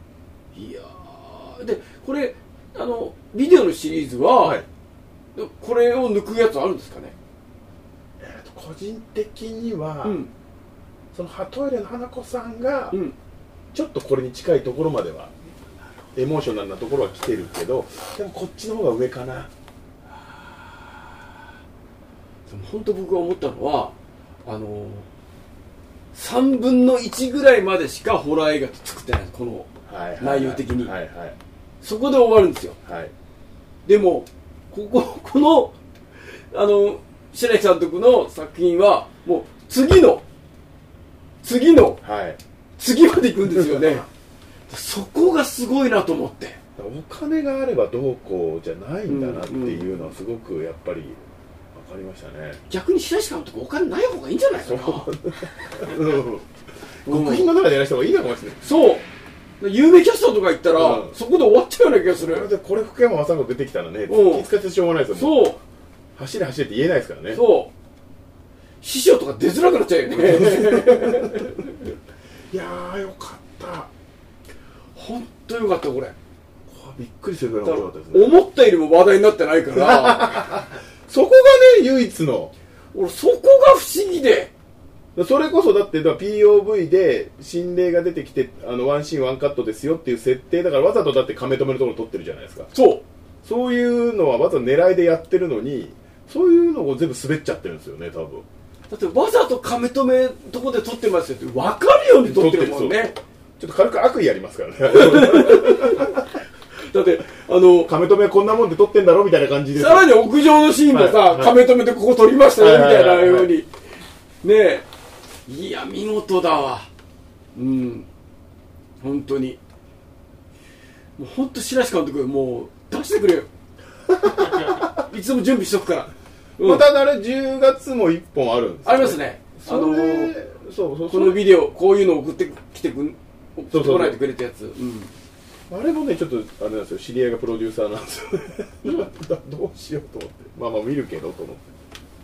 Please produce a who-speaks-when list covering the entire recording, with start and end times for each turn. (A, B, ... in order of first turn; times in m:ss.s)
0:00.5-0:04.6 A
0:04.4-0:04.6 B
0:05.3-0:07.2 A
0:08.2-0:10.2 B
0:10.0-0:10.3 A
0:11.1-0:13.0 B
0:12.9-0:13.2 A
0:13.7-0:15.3 B
0:16.1-0:19.5 B
0:22.5-0:25.1 A
0:26.1-0:30.9 A
0:29.9-0:31.4 B
0:31.8-0:32.8 A
0:32.8-0:33.1 B
0:33.8-0:35.7 A
0:36.5-0:40.2 A
0:41.4-0:42.0 A
0:42.0-0:42.4 B
0:42.8-0:44.1 A
0:43.4-0:44.0 B
0:44.7-0:46.6 A
0:46.8-0:51.2 B
0:49.1-0:50.1 A
0:51.7-0:52.6 B
0:52.7-0:55.1 A
0:54.6-0:56.4 B
0:57.0-0:57.5 A
0:57.0-0:58.6 B
0:58.6-0:59.1 A
0:59.6-1:02.5 A
1:00.7-1:01.2 B
1:02.1-1:05.5 B
1:04.1-1:04.5 A
1:05.1-1:05.6 A
1:06.2-1:07.4 B
1:07.3-1:07.7 A
1:08.8-1:11.8 A
1:10.1-1:11.6 B
1:12.5-1:13.9 B
1:14.9-1:16.1 A
1:16.7-1:18.4 B
1:17.6-1:20.4 A
1:19.7-1:22.5 B
1:22.9-1:24.5 A
1:25.1-1:32.7 B
1:32.7-1:33.0 A
1:33.4-1:38.4 B
1:38.9-1:43.2 A
1:42.2-1:46.3 B
1:44.9-1:46.3 A
1:46.8-1:47.9 A
1:47.8-1:50.2 B
1:49.7-1:53.7 A
1:50.8-1:51.7 B
1:52.6-1:53.5 B
1:54.4-1:54.9 A
1:55.5-1:56.9 A
1:57.5-1:58.1 A
1:59.0-1:59.6 A
2:01.2-2:03.5 A
2:04.2-2:04.8 B
2:04.6-2:06.9 A
2:06.6-2:11.6 B
2:08.8-2:10.3 A
2:11.1-2:15.1 A
2:13.7-2:14.2 B
2:15.7-2:21.6 B
2:18.8-2:19.1 A